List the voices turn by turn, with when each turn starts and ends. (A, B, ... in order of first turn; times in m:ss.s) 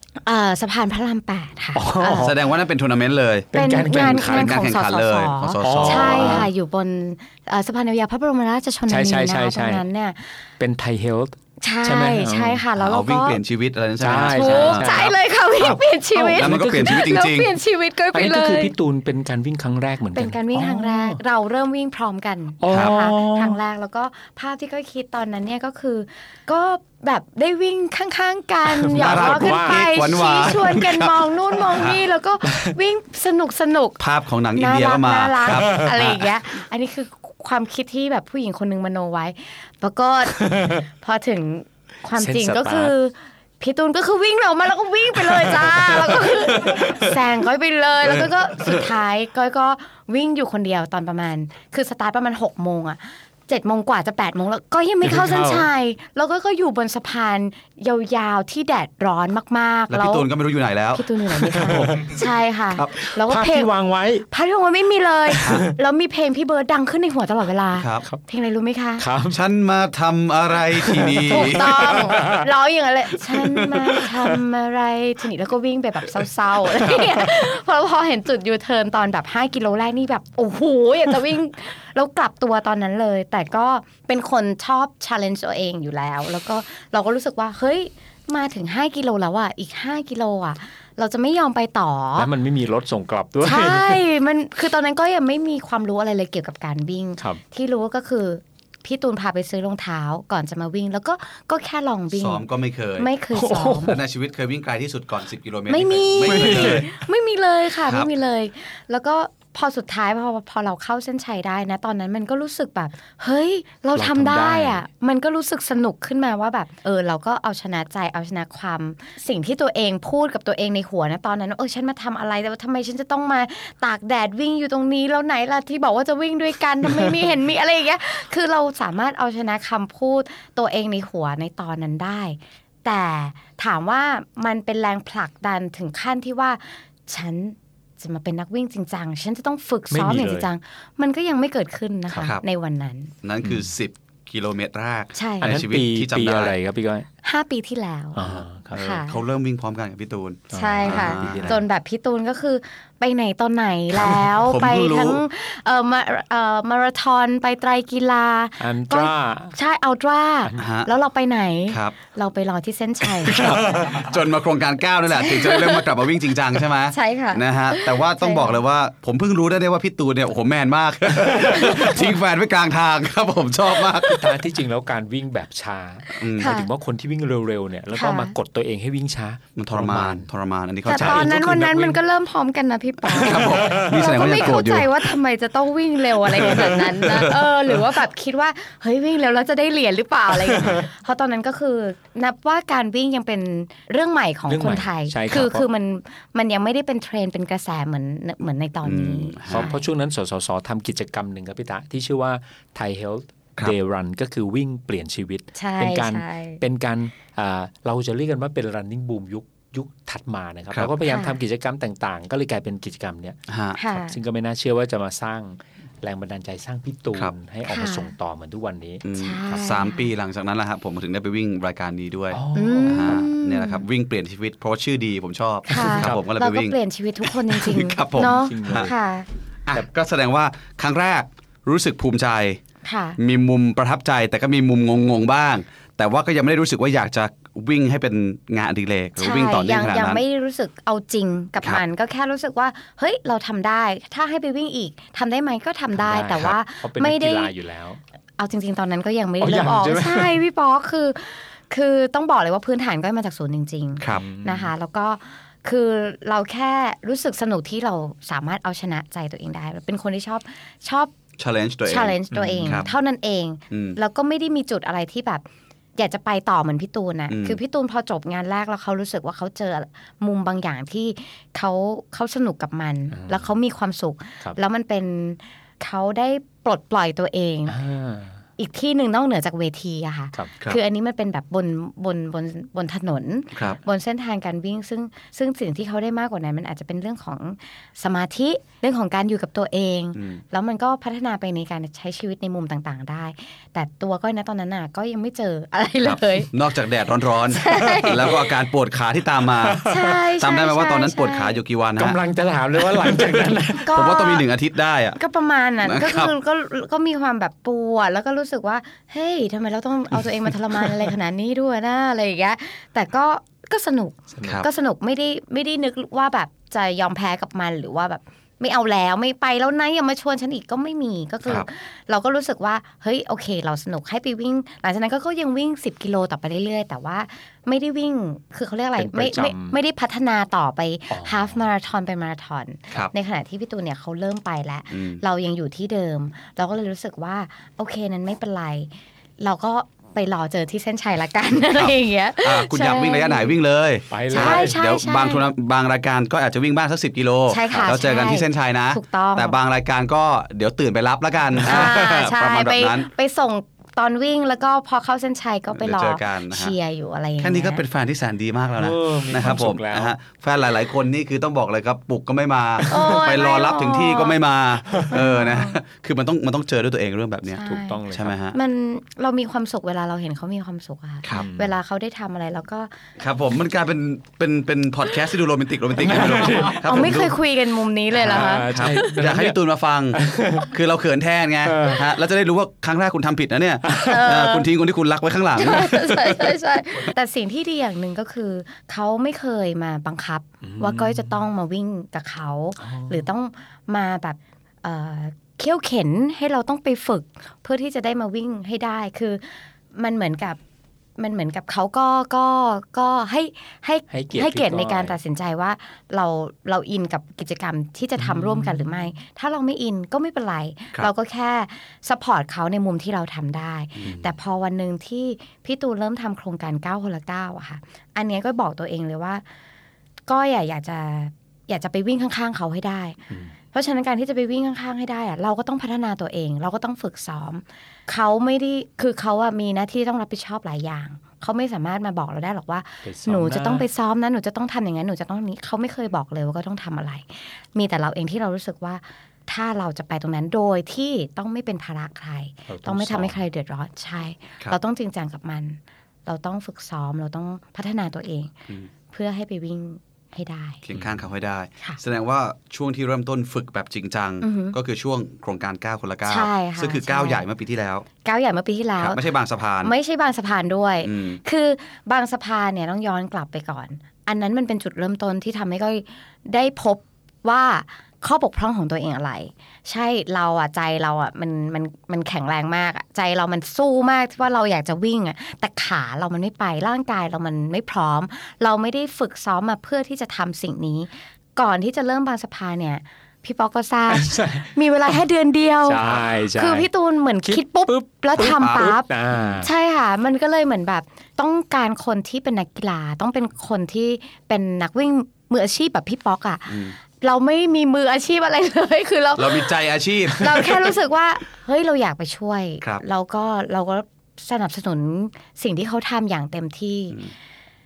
0:00.2-0:02.4 A
0:01.7-0:02.4 B
0:02.2-0:06.5 C
0:03.5-0:04.6 B
0:03.5-0:10.5 A
0:05.6-0:06.5 B
0:08.9-0:09.8 B
0:10.6-0:12.6 B
0:11.6-0:13.4 A
0:12.8-0:15.8 C
0:14.0-0:15.1 B
0:14.2-0:18.7 A
0:15.6-0:17.1 B
0:16.3-0:17.5 C
0:18.1-0:21.2 B
0:20.1-0:34.0 A
0:22.6-0:23.6 B
0:22.7-0:23.0 C
0:28.7-0:29.9 B
0:28.9-0:32.0 C
0:32.5-0:32.7 B
0:34.0-0:36.2 C
0:34.6-1:00.3 A
0:35.4-0:36.1 B
0:40.4-0:40.8 B
0:42.2-0:42.9 B
0:45.2-0:47.1 B
0:55.0-0:55.7 B
0:59.9-1:02.1 C
1:00.9-1:03.7 A
1:01.5-1:02.2 B
1:02.9-1:04.2 B
1:04.3-1:09.0 A
1:05.3-1:05.7 B
1:07.8-1:08.0 C
1:09.0-1:09.4 B
1:09.3-1:11.9 C
1:10.8-1:12.5 B
1:11.3-1:32.3 A
1:13.3-1:14.4 B
1:16.8-1:17.0 C
1:32.2-1:34.0 B
1:33.4-1:42.4 A
1:42.1-1:43.1 C
1:43.0-1:44.0 A
1:43.3-1:44.0 B
1:43.8-1:46.9 C
1:45.7-2:23.1 A
1:46.2-1:46.9 B
1:53.9-1:54.8 B
2:19.9-2:20.5 B
2:23.2-2:26.6 C
2:25.2-2:25.5 A
2:25.4-2:27.1 B
2:27.2-2:29.2 A
2:28.2-2:28.8 B
2:28.3-2:31.6 C
2:30.5-2:31.6 B
2:30.5-2:43.4 A
2:34.0-2:35.2 C
2:38.6-2:39.5 B
2:40.6-2:40.9 C
2:41.7-2:41.9 C
2:43.2-2:54.4 C
2:43.3-2:44.0 B
2:45.1-2:45.9 A
2:46.9-2:48.6 A
2:54.0-3:00.3 B
2:56.1-2:56.7 A
2:56.2-2:56.5 C
2:57.9-2:58.3 A
2:59.6-3:01.4 C
3:00.8-3:19.8 A
3:00.9-3:02.0 B
3:03.1-3:04.1 B
3:03.1-3:05.1 C
3:06.2-3:07.4 C
3:06.4-3:06.7 B
3:10.5-3:10.8 B
3:14.5-3:15.6 B
3:18.8-3:19.7 C
3:19.5-3:33.4 B
3:25.6-3:26.6 A
3:31.0-3:31.4 A
3:33.5-3:33.8 C
3:33.8-3:34.2 A
3:33.9-3:39.8 B
3:37.7-3:38.1 A
3:39.0-3:48.9 C
3:39.1-3:40.1 A
3:42.3-3:43.3 B
3:42.5-3:43.8 A
3:45.7-3:49.3 A
3:45.7-3:46.2 B
3:48.2-3:48.9 B
3:49.6-3:52.6 C
3:52.8-3:53.2 A
3:53.2-4:00.2 C
3:59.2-4:07.5 A
4:05.9-4:08.0 B
4:08.4-4:21.1 A
4:09.4-4:10.4 B
4:14.1-4:14.7 B
4:21.4-4:22.9 C
4:21.8-4:25.4 A
4:22.3-4:22.9 B
4:23.7-4:24.0 C
4:26.0-4:37.8 A
4:27.3-4:27.6 C
4:33.1-4:33.5 B
4:37.7-4:38.4 B
4:38.6-4:56.5 A
4:50.1-4:50.4 C
4:56.1-5:02.2 C
4:57.5-4:58.5 A
4:59.6-5:00.2 B
4:59.8-5:01.6 A
5:02.0-5:04.0 B
5:03.0-5:05.2 C
5:03.8-5:04.4 A
5:05.2-5:43.6 A
5:05.8-5:06.3 C
5:10.4-5:11.1 B
5:14.3-5:14.6 B
5:29.0-5:29.8 B
5:31.1-5:31.6 B
5:34.9-5:35.2 C
5:41.7-5:53.1 C
5:44.1-5:44.8 B
5:44.3-5:45.5 A
5:47.5-5:49.6 A
5:51.6-5:57.8 A
5:55.7-5:56.7 C
5:57.4-6:08.6 C
5:58.8-6:00.2 B
6:02.9-6:04.4 A
6:05.0-6:05.8 A
6:07.5-6:13.0 A
6:07.6-6:08.3 B
6:11.3-6:11.8 B
6:13.2-6:17.4 C
6:16.0-6:17.2 B
6:16.8-6:19.1 A
6:18.1-6:26.6 C
6:18.2-6:19.6 B
6:20.1-6:20.7 B
6:21.6-6:22.0 B
6:23.8-6:24.2 B
6:24.0-6:24.7 A
6:25.6-6:40.6 A
6:30.6-6:31.4 B
6:32.8-6:33.3 B
6:41.2-6:59.4 A
6:44.1-6:45.2 B
6:48.2-6:49.1 B
6:54.0-6:54.3 C
7:00.3-7:03.2 A
7:03.7-7:28.5 A
7:13.0-7:13.8 B
7:22.7-7:23.4 B
7:29.1-7:30.8 A
7:30.8-7:38.0 C
7:34.4-7:34.8 A
7:36.2-7:37.4 A
7:38.2-7:39.2 A
7:39.0-7:39.9 C
7:39.8-8:09.1 A
7:41.0-7:41.4 C
8:04.1-8:04.7 B
8:05.8-8:06.9 B
8:07.4-8:09.7 B
8:08.3-8:09.6 C
8:09.6-8:19.8 A
8:16.7-8:17.0 C
8:19.4-8:20.9 C
8:20.4-8:27.2 A